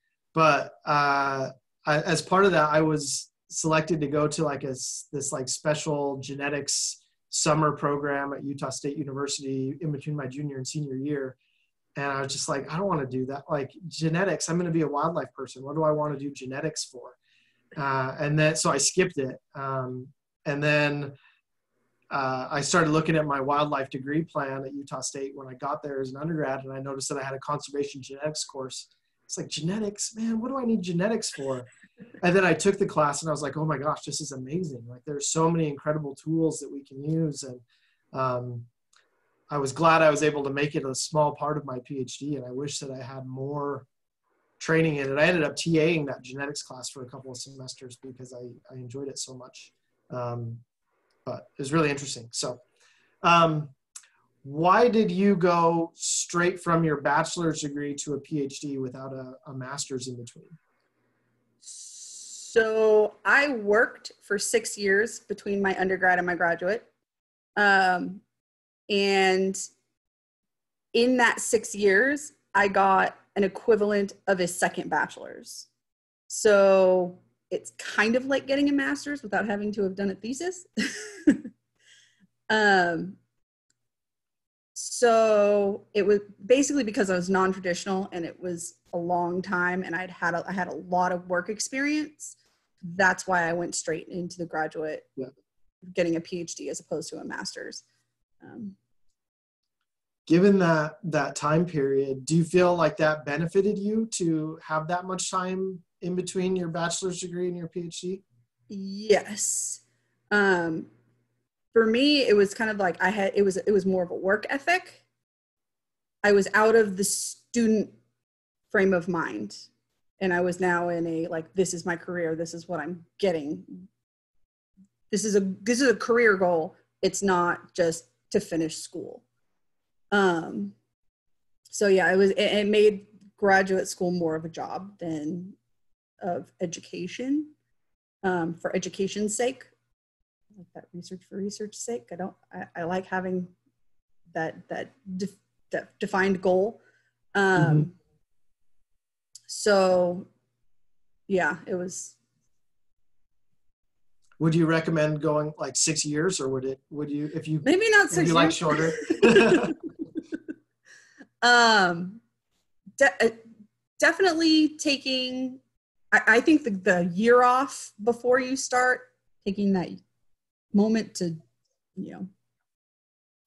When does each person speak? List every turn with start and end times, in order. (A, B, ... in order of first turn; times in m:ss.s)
0:00.3-0:11.4 A
0:12.0-0:17.2 A
0:17.8-0:21.1 A
0:22.1-0:31.7 A
0:32.2-0:37.6 A
0:38.1-0:38.7 A
0:39.5-0:43.9 A
0:44.6-0:50.6 A
0:51.2-0:52.6 A
0:53.2-0:53.7 A
0:54.4-1:00.6 A
1:01.6-1:06.9 B
1:07.6-1:08.2 B
1:08.9-1:09.6 B
1:10.9-1:15.7 B
1:16.3-1:21.5 B
1:22.5-1:23.2 B
1:24.7-1:35.1 B
1:35.9-1:37.8 B
1:38.4-1:38.8 B
1:40.3-1:48.2 A
1:48.7-1:50.9 B
1:51.7-1:55.0 B
1:56.2-1:58.0 B
1:58.7-1:59.7 B
2:00.2-2:03.9 B
2:05.1-2:09.2 B
2:10.1-2:10.7 B
2:11.7-2:15.6 B
2:16.2-2:17.5 B
2:18.2-2:19.7 B
2:20.5-2:23.5 B
2:24.3-2:26.8 B
2:27.3-2:28.0 B
2:27.6-2:27.8 A
2:29.5-2:30.3 B
2:31.3-2:32.2 B
2:34.4-2:39.8 A
2:37.6-2:39.7 B
2:41.4-2:42.2 B
2:43.0-2:43.4 B
2:44.0-2:45.6 B
2:46.1-2:50.0 B
2:50.7-2:51.4 B
2:52.0-2:52.3 B